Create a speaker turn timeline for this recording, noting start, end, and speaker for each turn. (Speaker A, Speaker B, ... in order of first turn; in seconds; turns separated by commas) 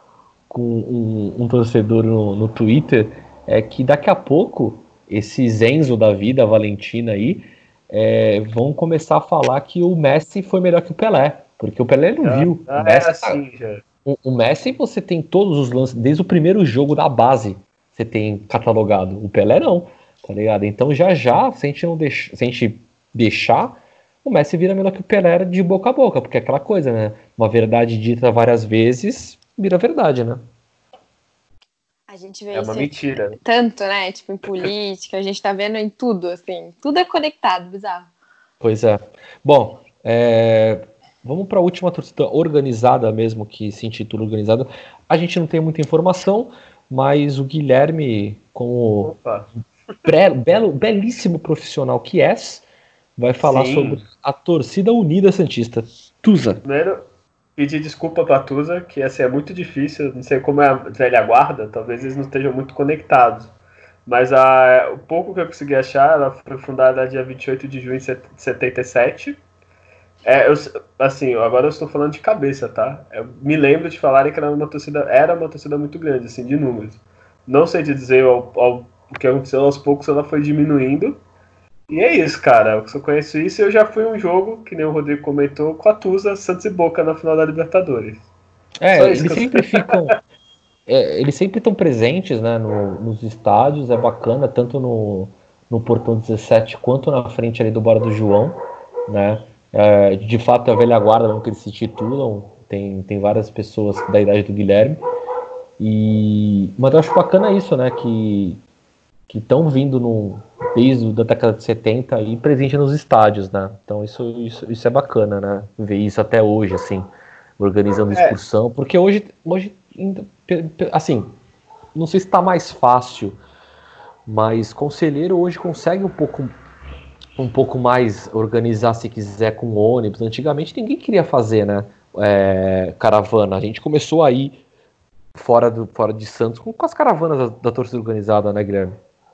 Speaker A: 0.5-13.4, Speaker B: 12.2-13.8, Speaker A: 14.1-30.4, Speaker C: 32.1-38.1, Speaker B: 32.5-33.4, Speaker A: 38.6-49.1, Speaker B: 49.0-49.5, Speaker A: 50.0-52.6, Speaker A: 53.2-56.6, Speaker B: 53.4-54.0, Speaker B: 56.6-63.5, Speaker B: 64.0-69.4, Speaker B: 70.2-81.2, Speaker B: 81.9-88.2, Speaker A: 88.8-90.2, Speaker B: 89.0-90.0, Speaker A: 90.9-105.0, Speaker A: 105.8-108.6, Speaker A: 109.3-117.1, Speaker A: 117.6-121.3, Speaker B: 118.1-118.4, Speaker A: 122.0-123.4, Speaker A: 124.3-126.5, Speaker A: 127.4-134.6, Speaker A: 135.3-139.0